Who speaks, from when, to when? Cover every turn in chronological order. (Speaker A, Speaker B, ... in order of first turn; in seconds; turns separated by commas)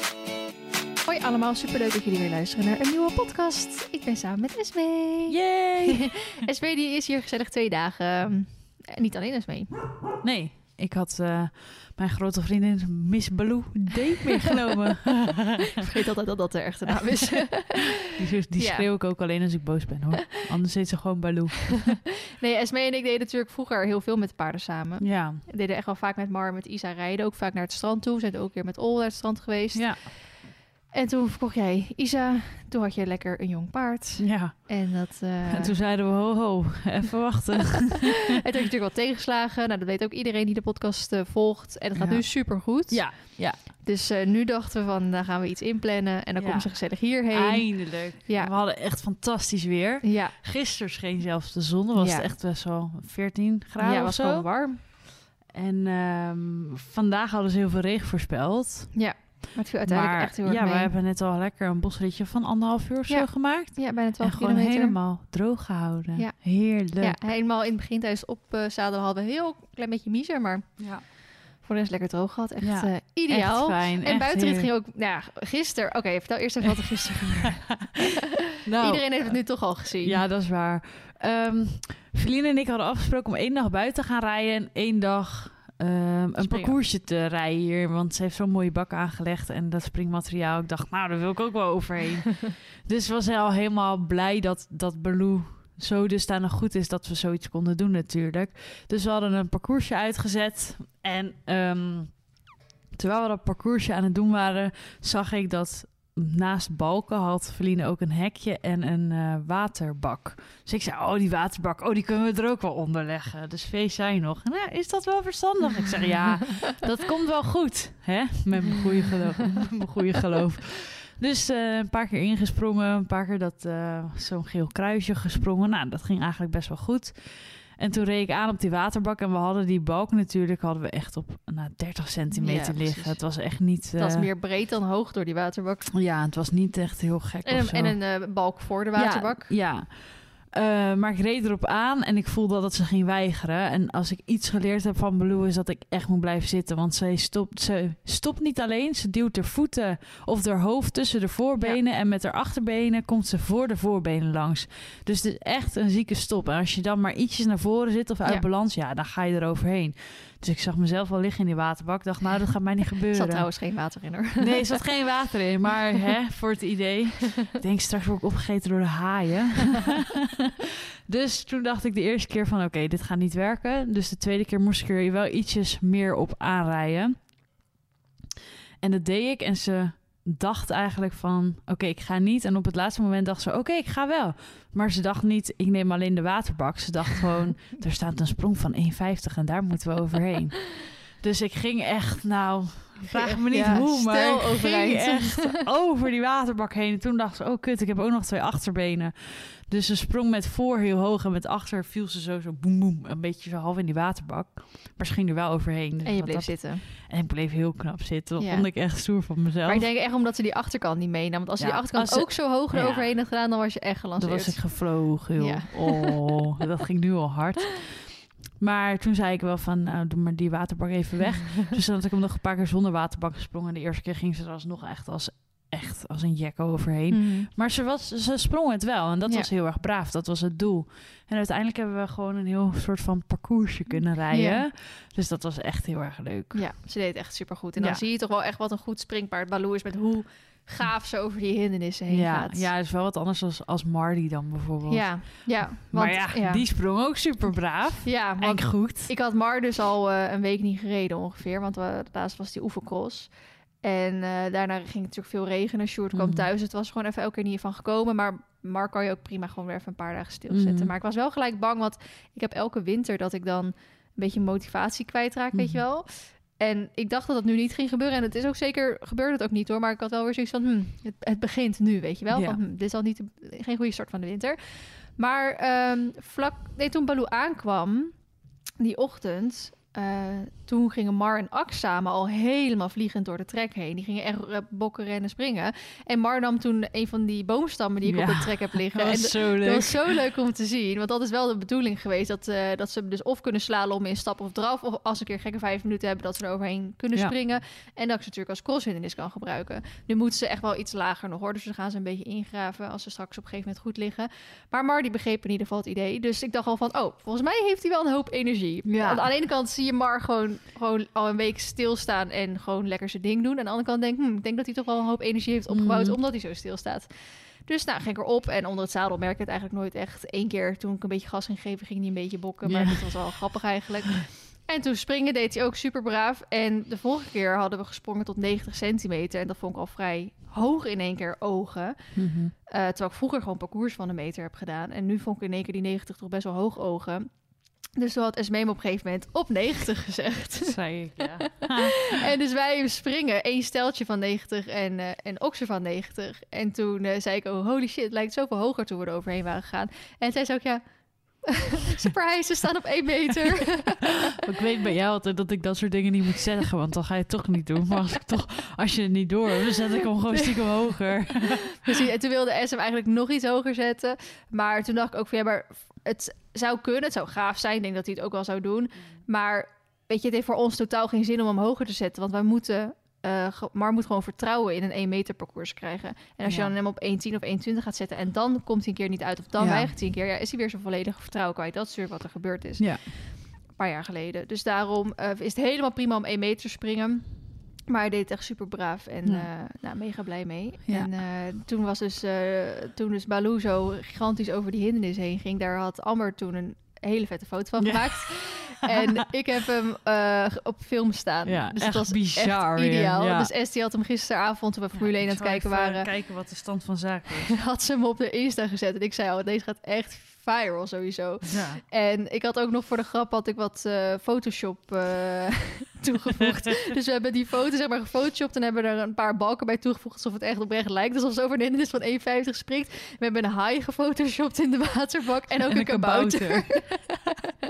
Speaker A: 1.1-9.7, Speaker B: 5.3-6.4, Speaker B: 10.2-15.7, Speaker A: 15.8-18.9, Speaker B: 16.9-22.0, Speaker A: 22.3-35.8, Speaker B: 25.0-25.4, Speaker B: 29.7-30.2, Speaker B: 34.2-38.3, Speaker A: 38.4-48.6, Speaker B: 42.0-43.6, Speaker B: 46.4-59.0, Speaker A: 50.0-50.4, Speaker A: 52.0-52.3, Speaker A: 53.8-54.8, Speaker A: 58.9-60.9, Speaker B: 59.9-67.2, Speaker A: 63.1-65.0, Speaker A: 66.2-78.0, Speaker B: 70.8-71.0, Speaker B: 72.6-74.7, Speaker B: 78.7-134.3, Speaker A: 78.8-80.3, Speaker A: 86.4-86.8, Speaker A: 118.7-119.2, Speaker A: 132.3-136.0, Speaker B: 135.9-138.0, Speaker A: 137.4-139.6, Speaker B: 138.9-170.2, Speaker A: 163.1-164.8, Speaker B: 171.1-177.4, Speaker B: 178.8-209.9, Speaker A: 193.2-195.7, Speaker A: 206.0-206.8, Speaker A: 208.4-216.5, Speaker B: 211.6-213.2, Speaker B: 214.2-236.7, Speaker A: 227.1-227.5, Speaker A: 234.3-234.7, Speaker A: 236.5-242.7, Speaker B: 237.8-238.0, Speaker B: 242.1-249.1, Speaker A: 244.9-246.7, Speaker A: 248.0-278.3, Speaker B: 256.1-256.5, Speaker B: 260.5-260.9, Speaker B: 265.5-265.8, Speaker B: 272.3-272.6, Speaker A: 278.8-350.8, Speaker B: 288.1-290.2, Speaker B: 308.9-309.3, Speaker B: 315.7-316.2, Speaker B: 322.6-323.7, Speaker B: 332.1-332.5, Speaker B: 340.6-342.1, Speaker A: 351.3-354.3, Speaker B: 354.4-361.8, Speaker A: 360.4-406.1, Speaker B: 376.4-376.8, Speaker B: 379.6-379.9, Speaker B: 382.8-383.2, Speaker B: 390.9-391.1, Speaker B: 397.8-399.2, Speaker B: 401.4-403.5, Speaker B: 405.0-407.5, Speaker A: 407.5-427.2, Speaker B: 411.5-411.8, Speaker B: 425.7-427.1